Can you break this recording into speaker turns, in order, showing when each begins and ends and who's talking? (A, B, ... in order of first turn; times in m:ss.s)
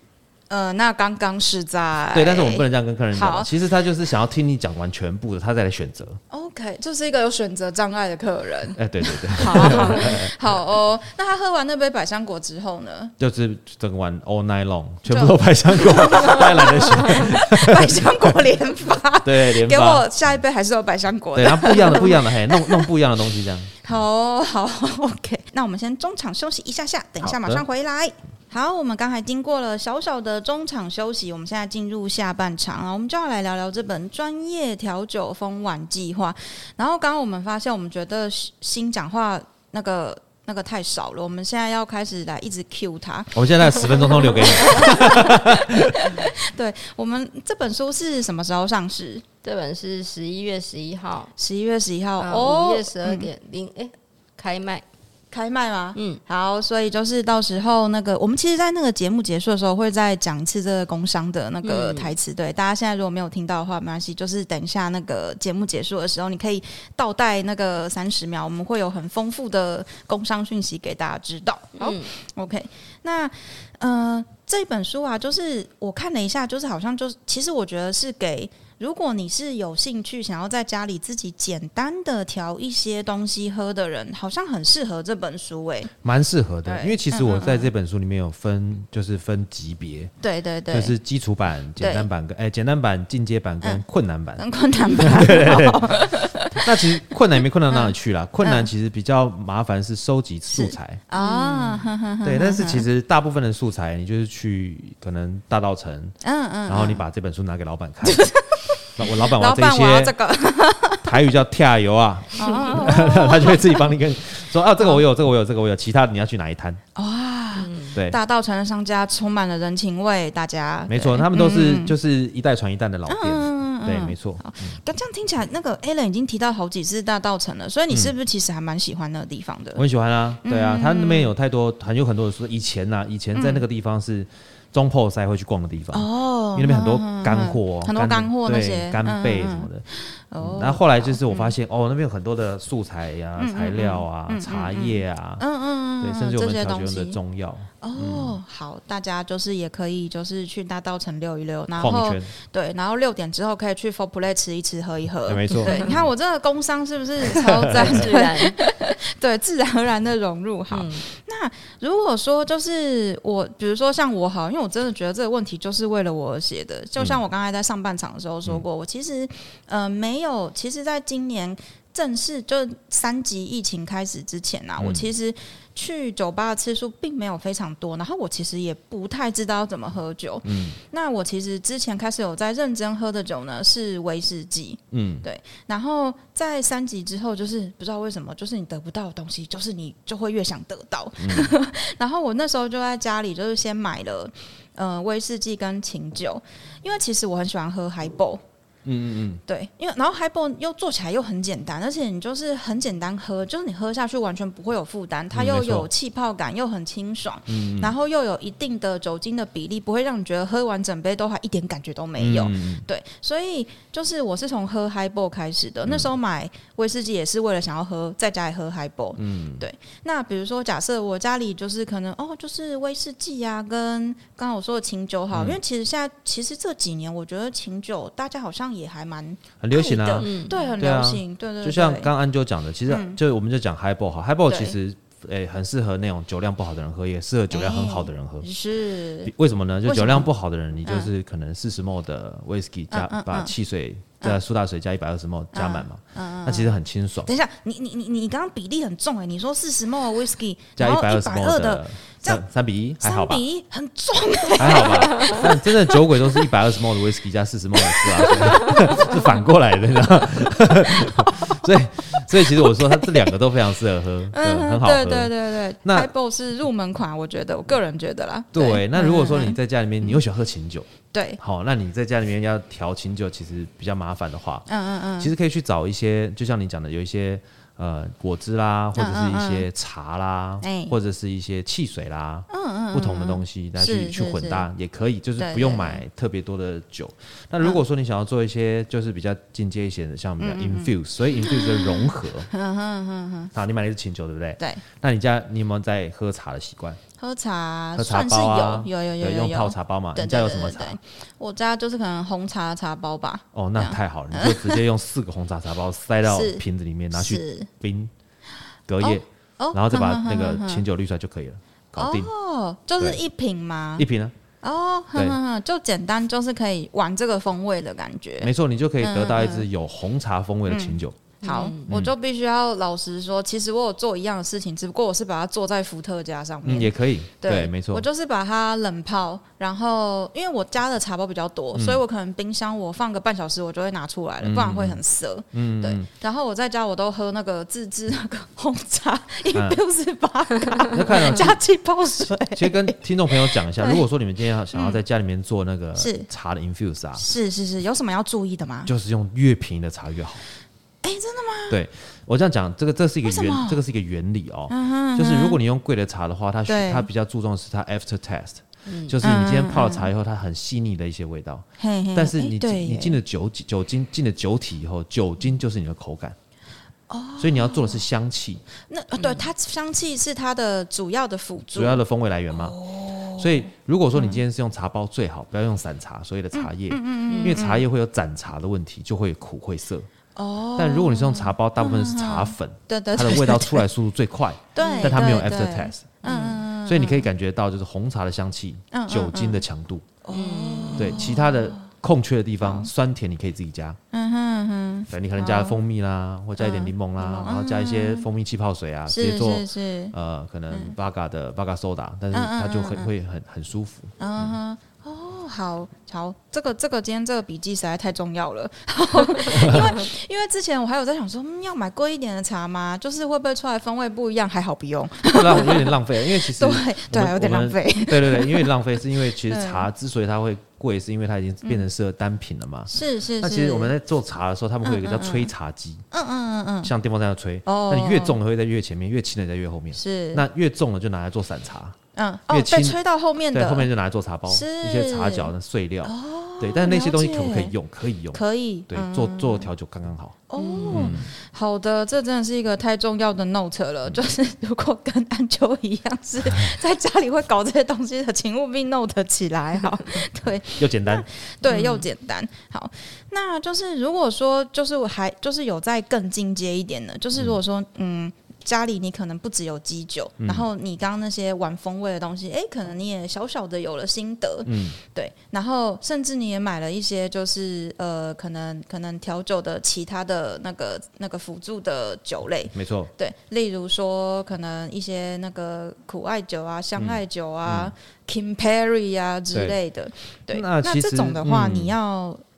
0:00.5-0:03.5 A
0:02.1-0:06.2 B
0:06.3-0:13.1 A
0:08.8-0:10.4 B
0:13.2-0:18.4 B
0:15.1-0:22.9 A
0:19.2-0:20.1 B
0:21.4-0:23.7 B
0:23.8-0:49.2 A
0:27.2-0:27.6 B
0:43.3-0:46.1 B
0:49.4-0:51.3 C
0:51.4-0:53.3 A
0:52.2-0:54.8 C
0:55.3-1:25.9 A
0:56.0-0:56.2 C
1:01.6-1:02.2 C
1:11.8-1:12.1 C
1:26.0-1:30.1 B
1:26.6-1:27.7 A
1:30.2-1:31.0 A
1:30.7-1:41.0 B
1:31.8-1:32.1 A
1:34.4-1:36.9 A
1:37.7-1:38.7 A
1:40.5-1:42.9 A
1:41.2-1:41.8 C
1:42.2-1:46.2 B
1:46.2-1:47.0 A
1:46.7-1:48.3 B
1:48.0-1:51.1 A
1:49.0-1:50.2 B
1:51.0-1:56.8 B
1:52.4-1:53.8 A
1:57.0-2:02.0 A
1:57.6-1:57.9 C
2:00.9-2:04.8 B
2:03.1-2:09.8 A
2:09.8-2:19.8 B
2:10.4-2:11.3 A
2:13.4-2:13.6 A
2:15.9-2:21.5 A
2:20.4-2:25.4 B
2:23.4-2:27.2 A
2:26.0-2:28.4 B
2:27.8-3:18.4 A
2:31.8-2:32.3 B
2:35.3-2:36.1 B
2:35.5-2:35.9 C
2:37.3-2:38.1 B
2:37.6-2:38.6 C
2:40.7-2:41.0 C
2:54.8-2:55.1 B
3:00.4-3:00.8 B
3:04.9-3:05.2 B
3:11.2-3:11.5 B
3:18.8-3:19.4 B
3:19.5-3:52.1 A
3:25.3-3:25.9 B
3:27.5-3:27.9 B
3:32.2-3:32.8 B
3:39.2-3:39.6 B
3:45.3-3:45.6 B
3:49.6-3:58.5 B
3:50.2-3:50.6 C
3:52.9-3:53.2 A
3:54.5-3:54.8 A
3:57.5-3:59.3 A
3:59.3-4:07.3 B
3:59.8-4:00.3 A
4:00.8-4:01.1 A
4:02.9-4:03.5 A
4:05.5-4:12.4 A
4:10.8-4:13.4 B
4:13.0-4:15.7 A
4:14.6-4:26.1 B
4:17.9-4:18.7 A
4:21.2-4:21.6 A
4:22.5-4:23.3 A
4:24.3-4:30.2 A
4:28.5-4:34.7 B
4:31.1-4:31.4 A
4:34.7-4:35.3 A
4:35.2-4:52.5 B
4:39.0-4:39.7 A
4:40.6-4:41.0 A
4:42.5-4:44.7 A
4:45.4-4:46.0 A
4:50.4-4:53.5 A
4:53.5-4:57.0 B
4:57.2-5:04.8 A
4:58.0-5:01.0 B
5:03.5-5:08.1 B
5:06.3-5:07.7 A
5:08.9-5:12.3 B
5:09.0-5:10.8 A
5:12.0-5:14.1 A
5:14.0-5:14.3 B
5:14.6-5:19.7 A
5:18.4-5:21.2 B
5:20.7-5:44.0 A
5:21.4-5:21.9 C
5:21.9-5:22.1 B
5:26.6-5:28.0 B
5:31.8-5:32.0 B
5:34.4-5:35.0 B
5:35.5-5:36.1 B
5:39.5-5:39.8 B
5:40.9-5:41.6 B
5:42.6-5:47.2 B
5:44.7-5:45.0 A
5:46.0-5:46.3 A
5:47.2-5:48.9 A
5:48.9-5:50.4 B
5:51.0-5:51.8 A
5:51.7-6:06.4 B
5:53.2-5:53.8 A
5:54.7-5:55.6 A
5:56.7-5:57.1 A
5:58.9-5:59.2 C
5:59.2-6:00.1 A
6:01.8-6:03.2 A
6:07.1-6:08.0 A
6:07.4-6:08.6 B
6:08.9-6:14.4 A
6:11.7-6:12.8 B
6:13.4-6:20.1 B
6:16.5-6:17.8 A
6:17.3-6:17.6 C
6:20.4-6:23.8 A
6:20.8-6:30.1 B
6:24.8-6:27.3 A
6:24.8-6:25.2 C
6:26.3-6:26.5 C
6:28.9-6:29.6 A
6:30.2-6:31.9 A
6:30.3-6:31.2 C
6:31.0-6:34.0 B
6:32.6-6:32.9 A
6:34.1-6:35.8 A
6:35.1-6:44.6 B
6:36.6-6:38.3 A
6:39.1-6:40.1 A
6:42.3-6:43.1 A
6:44.2-6:58.7 A
6:49.5-6:50.0 B
6:55.3-7:06.0 B
6:59.3-6:59.9 A
7:02.9-7:03.9 A
7:04.8-7:05.5 A
7:06.1-7:06.9 A
7:06.8-7:12.0 B
7:07.6-7:08.4 A
7:10.0-7:10.4 A
7:12.2-7:13.9 A
7:12.5-7:13.0 B
7:13.5-7:21.3 B
7:14.5-7:15.5 A
7:16.0-7:17.7 A
7:18.3-7:19.7 A
7:20.5-8:02.4 A
7:20.6-7:21.1 C
7:30.8-7:31.3 B
7:31.7-7:32.0 C
7:40.4-7:40.7 B
7:44.7-7:45.0 B
7:52.7-7:53.1 B
7:57.0-7:57.9 B
8:00.5-8:02.0 B